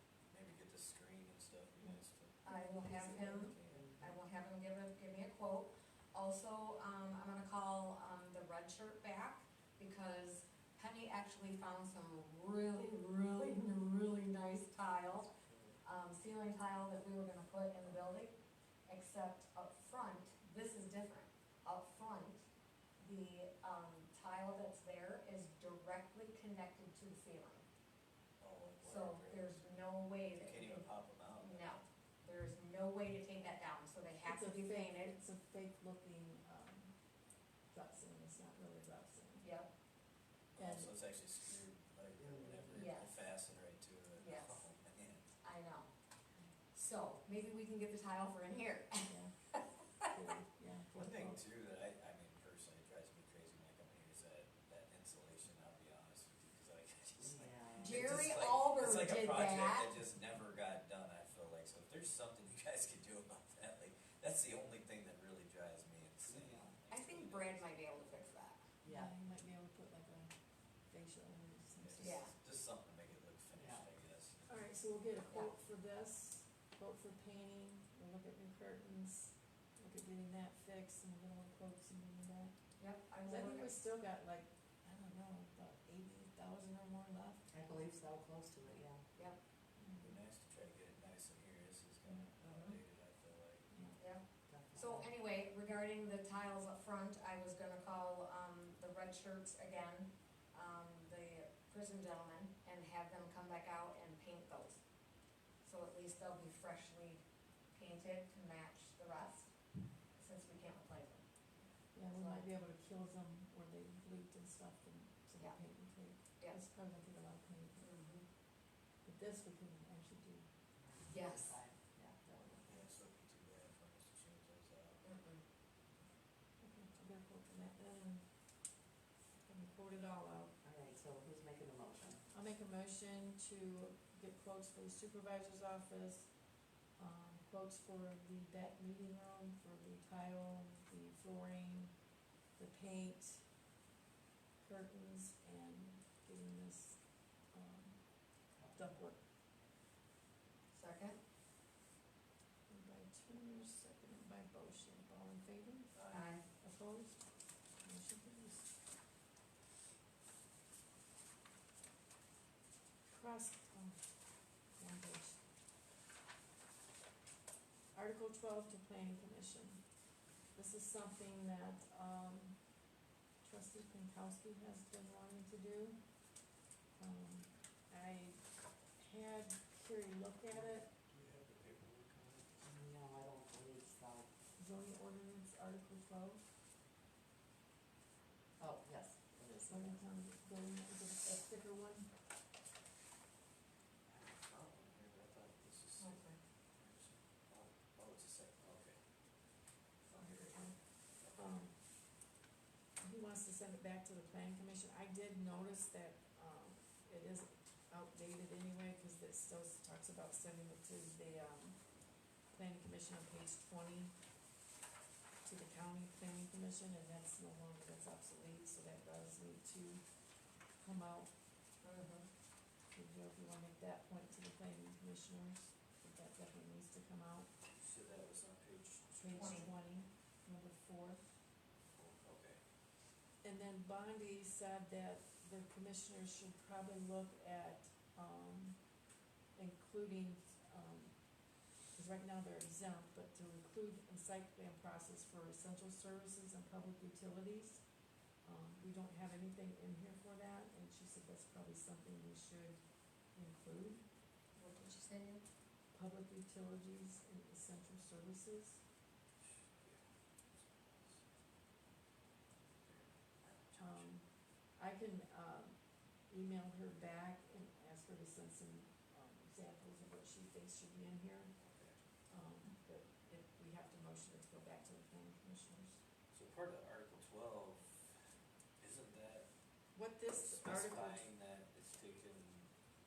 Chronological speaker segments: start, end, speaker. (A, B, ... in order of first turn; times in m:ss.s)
0:00.3-0:02.4 A
0:01.8-0:03.5 B
0:02.4-0:15.3 C
0:03.3-0:03.9 A
0:03.7-0:04.2 D
0:15.3-0:15.8 A
0:15.8-0:18.3 C
0:18.9-0:22.4 C
0:23.0-0:27.7 C
0:28.4-0:29.6 A
0:28.8-0:35.1 C
0:30.4-0:31.8 A
0:34.2-0:36.9 B
0:37.7-0:39.5 B
0:39.4-0:39.7 C
0:40.5-0:45.3 A
0:40.6-0:40.9 B
0:42.2-0:42.8 D
0:42.7-0:43.1 C
0:44.2-0:44.6 C
0:45.4-0:45.9 C
0:46.7-0:49.6 C
0:49.0-0:49.3 B
0:50.0-0:51.4 B
0:50.9-1:08.2 A
0:57.2-0:58.3 D
0:57.8-0:59.9 C
1:06.2-1:06.7 D
1:06.9-1:08.7 C
1:08.8-1:09.1 D
1:08.9-1:12.2 B
1:11.8-1:14.6 A
1:12.0-1:12.3 C
1:13.5-1:13.8 D
1:14.5-1:22.6 B
1:22.8-1:23.7 C
1:23.2-1:27.5 B
1:27.5-1:29.0 D
1:29.8-1:30.2 B
1:30.0-1:33.7 A
1:32.4-1:32.7 C
1:33.7-1:34.0 B
1:34.0-1:44.8 C
1:34.5-1:35.1 D
1:45.6-1:49.5 C
1:50.1-1:51.2 C
1:51.9-1:57.9 B
1:52.2-1:52.4 D
1:57.8-1:58.2 C
1:59.0-2:00.5 B
2:00.8-2:02.7 D
2:01.1-2:01.6 C
2:02.3-2:02.6 B
2:02.6-2:05.0 A
2:05.0-2:05.4 C
2:06.6-2:08.7 B
2:09.4-2:10.5 B
2:10.6-2:12.2 D
2:12.3-2:16.4 B
2:16.9-2:22.0 B
2:22.5-2:23.5 B
2:24.6-2:29.2 B
2:28.5-2:28.9 D
2:30.7-2:31.2 C
2:32.7-2:38.7 B
2:35.9-2:36.2 A
2:36.1-2:36.4 C
2:43.1-2:45.4 B
2:47.9-2:49.8 B
2:50.5-2:52.8 B
2:53.4-2:56.3 B
2:56.9-3:00.9 B
3:00.5-3:02.6 A
3:02.6-3:04.3 D
3:04.6-3:06.4 B
3:08.6-3:10.0 D
3:09.7-3:12.1 B
3:14.0-3:19.1 A
3:16.0-3:16.4 C
3:20.1-3:21.8 B
3:21.1-3:21.5 A
3:23.0-3:34.1 B
3:35.4-3:40.0 B
3:40.6-3:41.3 B
3:41.8-3:42.3 C
3:42.9-3:47.5 B
3:47.7-3:49.1 A
3:49.1-3:51.3 B
3:49.3-3:49.7 C
3:51.9-3:52.6 A
3:53.4-3:58.8 B
3:59.5-4:07.8 B
4:08.4-4:14.0 B
4:14.5-4:15.4 C
4:15.9-4:18.8 B
4:19.4-4:21.3 A
4:22.7-4:24.1 A
4:23.7-4:31.5 B
4:31.6-4:32.0 A
4:32.3-4:36.0 B
4:36.3-4:38.2 A
4:38.8-4:39.5 A
4:39.9-4:41.3 B
4:40.3-4:42.7 A